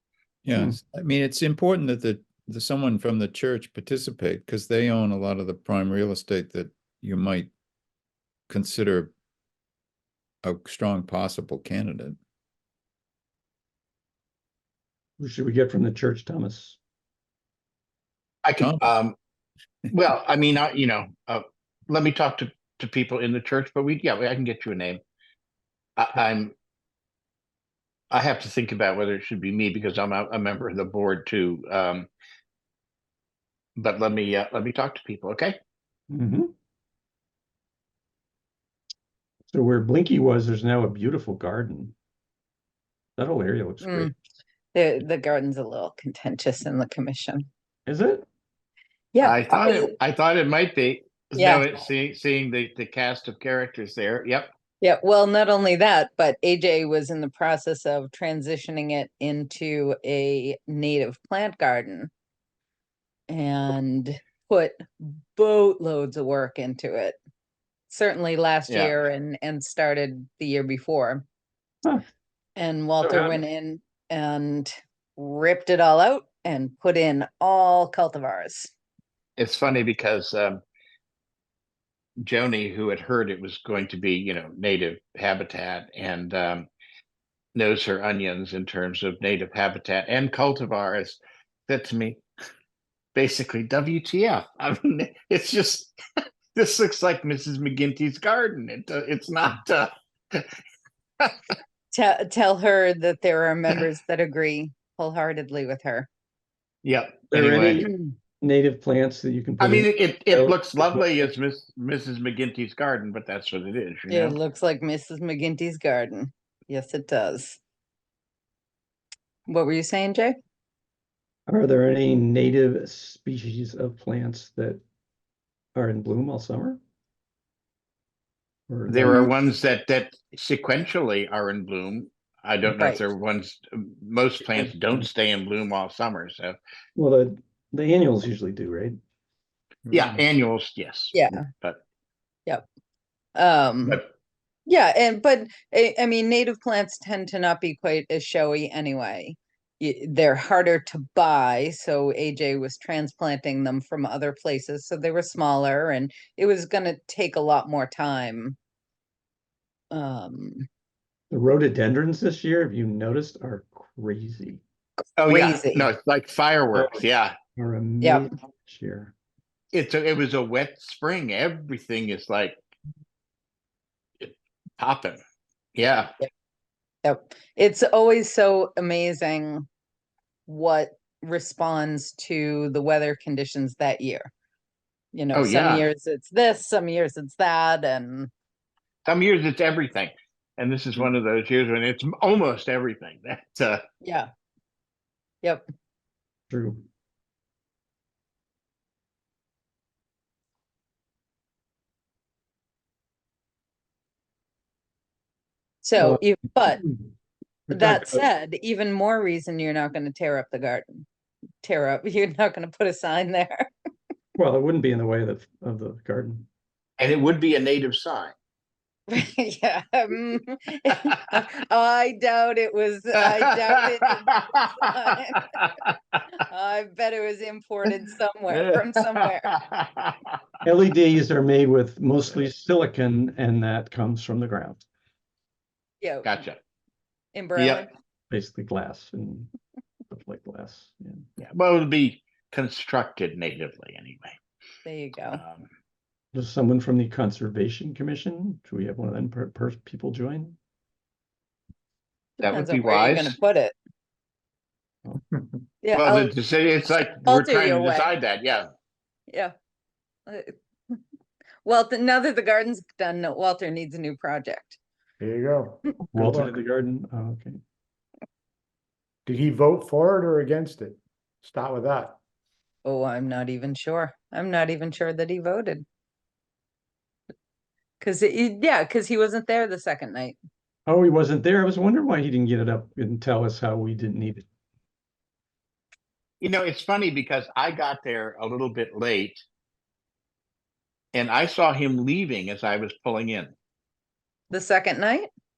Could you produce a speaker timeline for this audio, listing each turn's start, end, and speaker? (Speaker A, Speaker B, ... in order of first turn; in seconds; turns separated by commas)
Speaker A: 0.4-7.5, Speaker A: 8.5-9.1, Speaker A: 10.4-12.2, Speaker B: 15.2-16.8, Speaker C: 18.4-19.2, Speaker A: 18.6-18.9, Speaker C: 19.9-25.0, Speaker C: 26.0-26.5, Speaker C: 28.1-32.1, Speaker C: 33.8-35.6, Speaker B: 36.1-36.5, Speaker B: 39.5-41.9, Speaker B: 43.2-44.1, Speaker D: 43.8-44.1, Speaker D: 44.7-47.5, Speaker B: 47.9-48.2, Speaker D: 49.1-49.9, Speaker C: 49.2-54.5, Speaker D: 51.4-51.7, Speaker D: 54.8-62.1, Speaker D: 63.3-67.2, Speaker D: 67.9-71.2, Speaker C: 68.7-69.0, Speaker D: 72.6-78.7, Speaker B: 73.0-73.4, Speaker C: 79.4-80.6, Speaker C: 82.2-86.7, Speaker C: 87.5-92.2, Speaker C: 93.2-96.0, Speaker C: 96.5-100.5, Speaker D: 101.9-106.1, Speaker C: 106.8-107.9, Speaker B: 107.3-111.3, Speaker C: 109.6-114.4, Speaker D: 114.1-117.6, Speaker D: 119.5-120.4, Speaker B: 121.5-124.8, Speaker B: 125.8-126.8, Speaker B: 128.7-129.3, Speaker C: 128.9-136.6, Speaker D: 132.7-133.1, Speaker B: 137.0-139.0, Speaker B: 139.9-140.2, Speaker C: 139.9-141.8, Speaker D: 141.1-141.4, Speaker D: 143.4-144.0, Speaker D: 144.7-158.6, Speaker D: 159.9-160.7, Speaker B: 161.3-164.6, Speaker C: 165.2-167.3, Speaker D: 165.3-165.9, Speaker B: 166.8-169.1, Speaker C: 169.7-172.6, Speaker C: 174.2-175.2, Speaker C: 175.8-176.1, Speaker D: 177.0-179.7, Speaker D: 180.5-184.3, Speaker D: 185.1-188.3, Speaker C: 185.3-185.9, Speaker C: 189.1-193.8, Speaker D: 194.0-194.3, Speaker B: 196.5-196.8, Speaker D: 205.8-206.8, Speaker B: 206.0-207.1, Speaker B: 207.7-208.2, Speaker D: 207.7-211.1, Speaker D: 211.6-213.7, Speaker B: 214.4-216.5, Speaker C: 217.0-218.3, Speaker D: 219.1-225.5, Speaker C: 223.3-224.7, Speaker C: 225.3-225.7, Speaker D: 226.4-229.5, Speaker C: 228.5-230.2, Speaker B: 230.6-234.8, Speaker D: 236.0-236.3, Speaker C: 236.2-236.6, Speaker D: 237.3-237.9, Speaker C: 237.6-237.8, Speaker B: 238.3-239.5, Speaker B: 240.1-241.2, Speaker C: 241.4-244.4, Speaker D: 244.8-245.4, Speaker C: 245.3-245.7, Speaker B: 246.3-250.6, Speaker C: 252.4-253.3, Speaker D: 252.4-253.8, Speaker D: 255.8-256.4, Speaker C: 256.0-258.7, Speaker D: 257.2-258.1, Speaker D: 260.3-261.0, Speaker D: 261.6-264.8, Speaker E: 265.2-266.6, Speaker B: 266.1-267.6, Speaker E: 269.3-272.2, Speaker D: 272.9-275.9, Speaker D: 278.0-280.4, Speaker B: 280.9-284.4, Speaker C: 286.4-289.4, Speaker C: 291.1-293.5, Speaker D: 294.5-295.3